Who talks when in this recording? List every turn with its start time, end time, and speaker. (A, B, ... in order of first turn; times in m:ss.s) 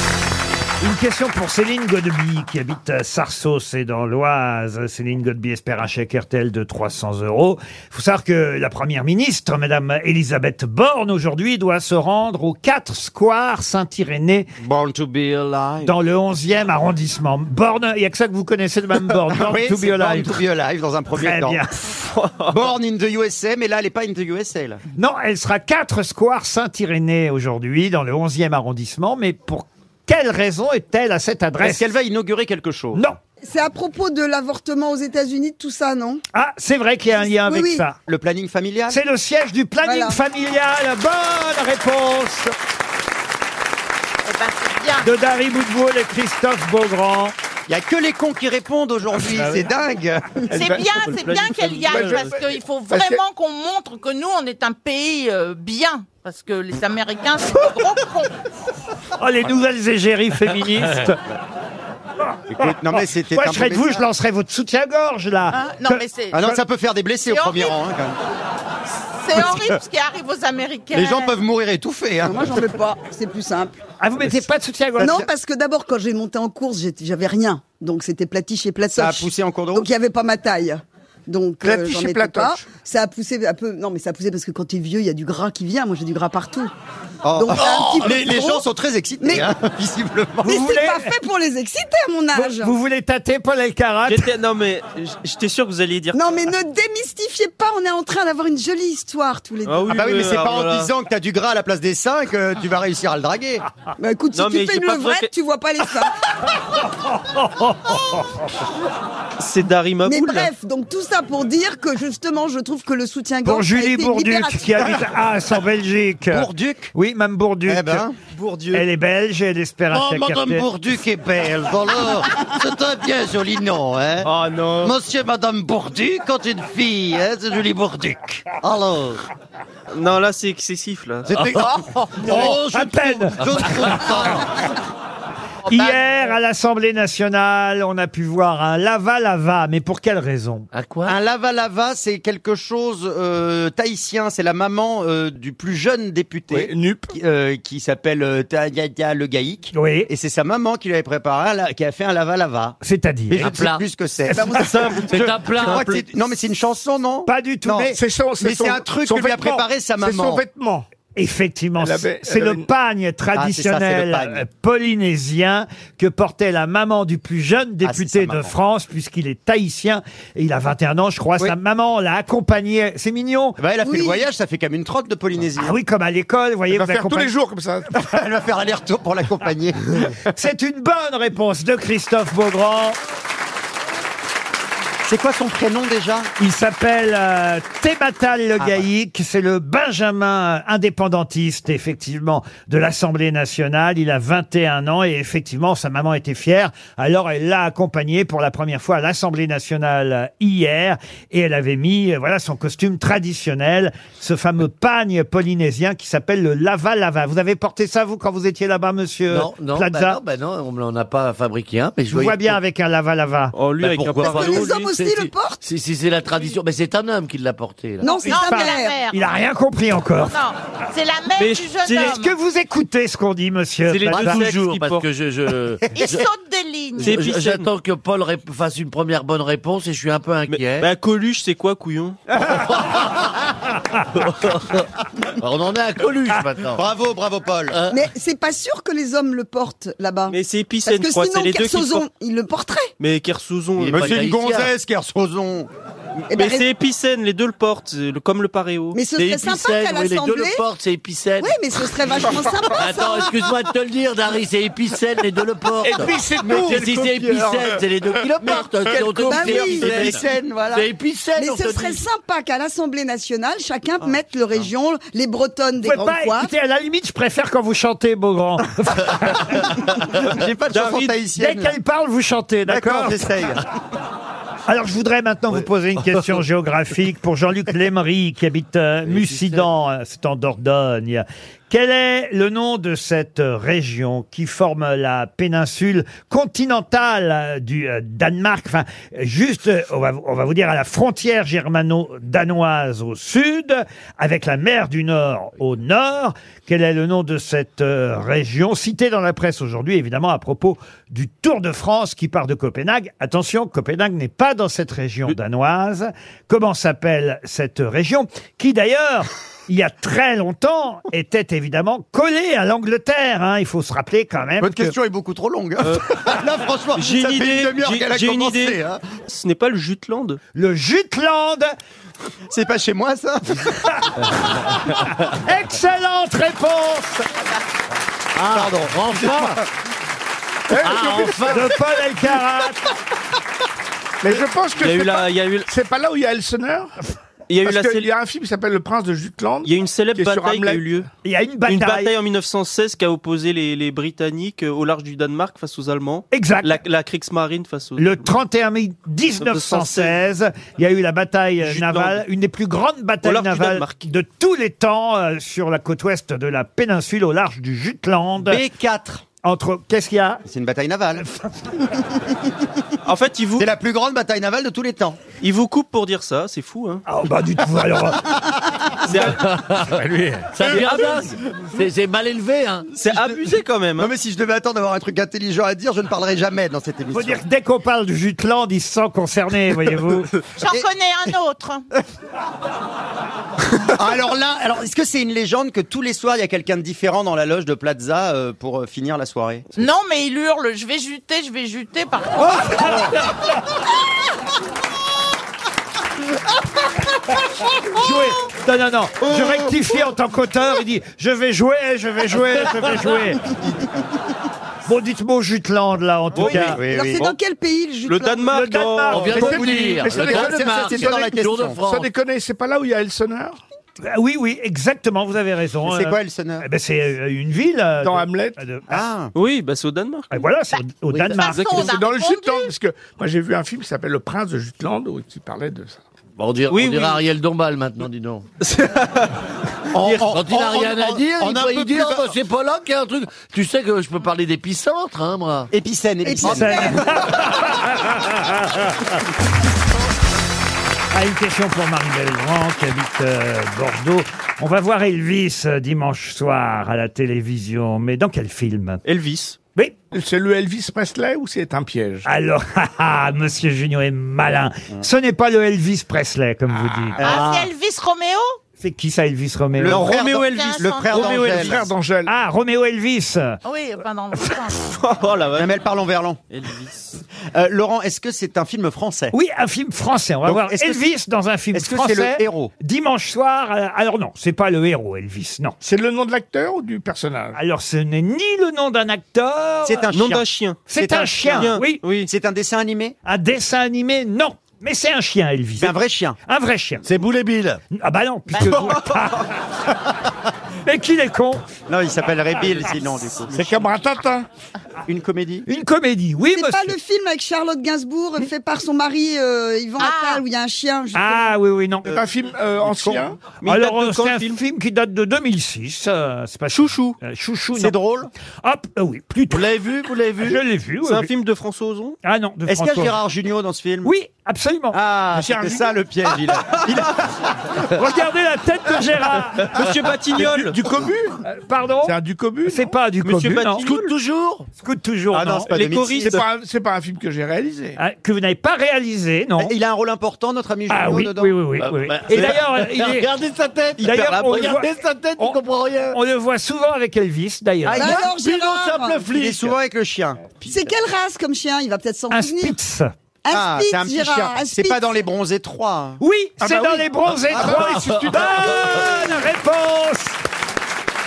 0:00.8-0:14.5 A
0:14.6-0:15.9 B
0:15.8-0:20.4 A
0:19.2-0:21.6 B
0:21.1-0:21.8 A
0:22.0-0:22.6 C
0:22.5-0:24.8 B
0:24.9-0:31.9 A
0:31.6-0:33.0 B
0:33.4-0:36.2 D
0:36.3-0:38.0 A
0:37.2-0:37.8 D
0:38.1-0:39.0 B
0:38.9-0:42.5 A
0:39.8-0:40.2 D
0:44.2-0:45.1 E
0:45.0-0:47.3 A
0:47.7-0:50.4 B
0:50.5-0:51.0 F
0:50.5-0:58.3 E
0:51.0-0:52.3 C
0:51.8-0:53.2 F
0:59.2-1:01.2 A
1:02.5-1:04.0 B
1:02.6-1:06.0 A
1:05.5-1:06.5 E
1:06.3-1:08.2 B
1:07.2-1:07.8 E
1:09.2-1:11.3 E
1:09.3-1:09.8 B
1:10.9-1:12.6 B
1:12.2-1:13.8 D
1:14.0-1:15.2 A
1:15.0-1:15.2 B
1:15.0-1:26.7 D
1:18.9-1:19.9 B
1:21.6-1:22.6 F
1:27.2-1:30.6 B
1:27.3-1:28.6 D
1:29.2-1:29.5 D
1:30.4-1:31.1 A
1:30.4-1:32.7 D
1:32.3-1:34.3 A
1:34.0-1:36.2 C
1:36.1-1:40.0 D
1:39.6-1:40.9 C
1:39.9-1:43.7 B
1:44.0-1:46.1 D
1:44.3-1:45.3 C
1:47.2-1:48.2 A
1:49.4-1:50.5 C
1:50.0-1:54.9 D
1:53.4-1:58.0 A
1:56.3-1:56.9 B
1:57.7-1:58.2 B
1:58.3-1:58.8 C
1:58.7-2:00.6 A
1:59.9-2:00.7 G
2:00.6-2:09.2 B
2:04.2-2:05.0 C
2:09.9-2:11.3 C
2:11.3-2:14.7 B
2:11.3-2:14.4 G
2:12.2-2:14.2 A
2:15.7-2:20.7 A
2:15.7-2:16.0 B
2:20.7-2:21.1 G
2:21.0-2:40.4 B
2:26.5-2:27.1 F
2:29.7-2:30.1 A
2:32.8-2:33.6 A
2:33.4-2:36.1 G
2:34.3-2:35.0 A
2:37.3-2:38.0 A
2:37.9-2:40.8 F
2:41.2-2:53.6 A
2:41.8-2:42.6 F
2:43.3-2:44.4 B
2:47.8-2:48.5 B
2:53.6-2:55.7 B
2:53.8-2:54.2 D
2:55.6-2:57.3 A
2:56.7-2:57.9 F
2:58.0-3:00.2 B
3:00.3-3:03.0 A
3:05.0-3:06.3 B
3:06.4-3:30.2 A
3:08.6-3:08.8 B
3:29.3-3:32.6 G
3:32.1-3:33.6 A
3:33.5-3:34.9 C
3:33.8-3:38.1 G
3:34.2-3:35.6 D
3:38.0-3:39.0 D
3:38.1-3:39.2 E
3:38.2-3:40.4 A
3:40.2-3:42.3 E
3:41.4-3:42.2 C
3:42.1-3:44.4 A
3:43.9-3:45.1 C
3:44.0-3:46.2 G
3:45.9-3:47.2 E
3:47.0-3:50.9 G
3:47.0-3:47.7 C
3:50.5-3:52.2 C
3:52.5-3:53.3 G
3:54.2-3:54.8 G
3:55.4-3:56.8 G
3:56.7-3:57.8 B
3:57.7-3:58.0 G
3:57.9-4:02.9 D
4:00.3-4:02.1 C
4:03.0-4:04.2 C
4:03.8-4:04.7 G
4:03.9-4:05.7 B
4:06.3-4:06.6 D
4:06.3-4:09.0 C
4:08.9-4:10.6 D
4:09.2-4:11.6 G
4:11.4-4:13.3 D
4:12.2-4:12.8 F
4:12.8-4:22.0 G
4:15.8-4:19.8 F
4:19.1-4:20.9 B
4:19.3-4:19.9 D
4:21.4-4:26.5 D
4:25.8-4:29.9 A
4:30.2-4:31.8 B
4:30.7-4:31.1 C
4:31.4-4:33.2 A
4:32.7-4:33.6 B
4:34.7-5:14.9 A
4:39.1-4:39.7 G
5:14.6-5:19.0 B
5:16.9-5:20.4 C
5:20.5-5:21.7 A
5:22.5-5:23.9 B
5:23.9-5:27.3 A
5:28.3-5:29.6 G
5:28.5-5:29.7 B
5:30.7-5:31.6 F
5:30.8-5:31.7 G
5:31.4-5:32.8 A
5:34.2-5:36.9 F
5:34.8-5:35.7 C
5:37.5-5:38.1 C
5:37.6-5:40.9 F
5:39.6-5:41.1 C
5:41.2-5:42.1 A
5:41.6-5:48.4 C
5:46.3-5:46.8 A
5:48.0-5:58.6 A
5:49.4-5:50.2 C
5:51.6-5:52.2 C
5:53.2-5:54.1 C
5:58.4-5:59.2 B
5:59.4-6:00.4 A
6:00.4-6:01.2 B
6:01.4-6:01.8 A
6:03.0-6:03.7 C
6:03.6-6:05.2 B
6:05.4-6:07.0 C
6:07.0-6:08.4 A
6:09.0-6:09.5 C
6:09.3-6:13.2 G
6:09.8-6:11.0 F
6:10.7-6:11.3 C
6:12.9-6:14.1 C
6:14.0-6:17.4 B
6:17.1-6:20.4 A
6:20.6-6:21.8 E
6:23.8-6:29.7 B
6:29.8-6:33.0 E
6:37.9-6:43.5 A
6:44.8-6:46.8 A
6:46.3-6:46.8 C
6:46.4-6:47.3 B
6:46.8-6:48.6 D
6:48.0-6:49.6 C
6:48.5-6:49.6 A
6:49.1-6:52.1 G
6:49.4-6:51.8 B
6:49.4-6:53.6 F
6:54.0-6:59.0 A
6:55.8-6:56.6 B
6:58.0-6:58.6 F
6:58.9-6:59.3 B
6:59.3-7:00.4 C
7:00.3-7:01.8 A
7:01.1-7:01.4 G
7:01.3-7:02.7 E
7:01.4-7:01.9 C
7:01.8-7:06.0 F
7:06.4-7:08.4 G
7:06.7-7:07.2 C
7:08.6-7:09.3 C
7:09.9-7:12.3 B
7:09.9-7:10.3 C
7:10.3-7:15.7 G
7:15.7-7:17.4 B
7:16.2-7:17.0 D
7:16.4-7:19.2 A
7:21.1-7:29.0 A
7:29.0-7:29.6 C
7:30.1-7:32.2 F
7:32.2-7:37.5 A
7:37.2-7:37.7 B
7:37.2-7:38.6 E
7:38.8-7:40.1 A
7:39.8-7:41.8 B
7:39.9-7:41.7 C
7:39.9-7:41.7 E
7:41.1-7:42.3 F
7:42.2-7:43.6 A
7:43.6-7:44.9 E
7:44.8-7:45.7 C
7:45.6-7:46.4 B
7:46.5-7:47.2 C
7:47.5-7:49.3 B
7:49.3-7:55.8 A
7:50.4-7:51.0 B
7:51.7-7:52.7 B
7:55.8-7:57.6 F
7:57.5-8:00.1 A
7:59.8-8:00.4 B
8:00.1-8:02.3 C
8:00.9-8:02.0 A
8:01.4-8:03.2 B
8:03.2-8:05.9 A
8:05.8-8:06.4 B
8:06.5-8:07.0 A
8:07.0-8:07.8 G
8:07.9-8:09.4 A
8:08.6-8:09.0 B
8:10.8-8:11.6 A
8:11.9-8:13.8 B
8:13.5-8:14.5 F
8:15.0-8:15.7 B
8:15.7-8:17.0 A
8:16.5-8:21.5 D
8:20.0-8:20.4 E
8:21.1-8:22.2 A
8:22.1-8:23.5 F
8:22.8-8:27.9 A
8:23.6-8:24.6 C
8:26.7-8:27.2 C
8:27.7-8:28.3 B
8:28.6-8:29.7 A
8:29.5-8:30.6 G
8:30.4-8:31.3 A
8:31.0-8:32.2 C
8:32.2-8:33.1 A
8:32.7-8:34.1 B
8:34.0-8:35.0 A
8:34.9-8:37.2 B
8:35.3-8:35.9 F
8:37.9-8:39.8 A
8:39.6-8:40.8 C
8:40.3-8:41.4 F
8:41.5-8:43.8 A
8:42.0-8:43.0 F
8:43.2-8:44.1 C
8:43.8-8:44.7 G
8:44.8-8:45.7 A
8:45.3-8:46.4 B
8:45.7-8:46.4 C
8:46.2-8:48.0 F
8:48.0-8:49.7 A
8:49.6-8:51.5 B
8:50.9-8:53.3 A
8:51.8-8:56.2 G
8:54.0-8:54.8 B
8:54.0-8:54.9 A
8:56.1-8:58.3 A
8:57.8-8:59.8 G
8:57.9-8:59.2 D
8:59.3-9:00.6 B
9:00.6-9:02.8 D
9:02.3-9:03.1 A
9:03.4-9:05.2 D
9:03.5-9:06.2 B
9:06.2-9:10.4 A
9:06.6-9:08.8 F
9:07.5-9:07.8 B
9:08.0-9:08.4 G